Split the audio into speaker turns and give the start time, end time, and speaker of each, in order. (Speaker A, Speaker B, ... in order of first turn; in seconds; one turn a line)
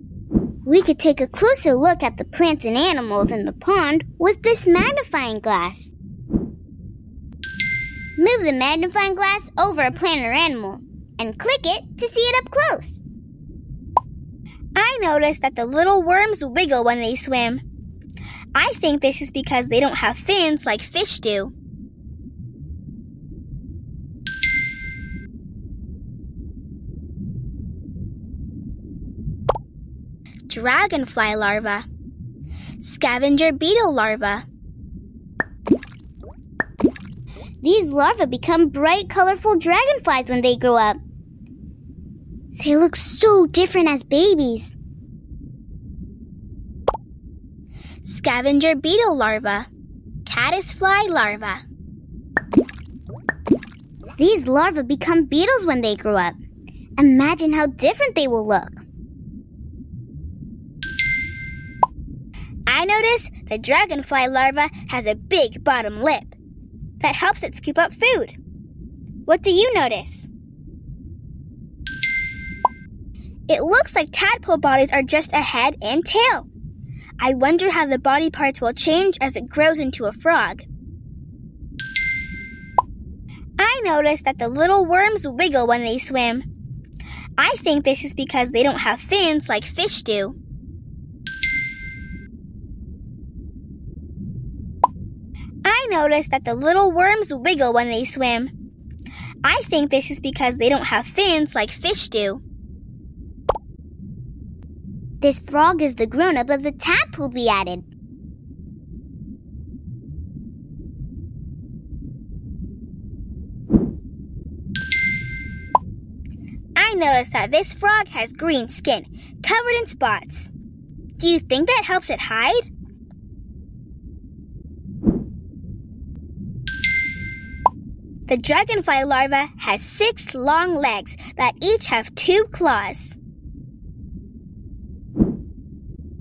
Speaker A: 0.7-5.9
Speaker A: 8.2-13.0
Speaker B: 14.8-17.6
Speaker B: 18.5-21.5
Speaker B: 30.5-31.9
Speaker B: 32.8-34.5
Speaker A: 37.6-41.0
Speaker A: 42.5-44.8
Speaker B: 48.0-49.7
Speaker B: 50.2-51.6
Speaker A: 54.2-56.4
Speaker A: 57.0-58.8
Speaker B: 62.7-66.4
Speaker B: 67.0-68.4
Speaker B: 69.3-70.3
Speaker B: 73.5-76.5
Speaker B: 77.2-80.7
Speaker B: 83.6-86.5
Speaker B: 87.4-90.4
Speaker B: 95.6-98.5
Speaker B: 99.4-102.4
Speaker A: 105.2-107.8
Speaker B: 116.8-120.5
Speaker B: 121.2-122.7
Speaker B: 128.3-133.2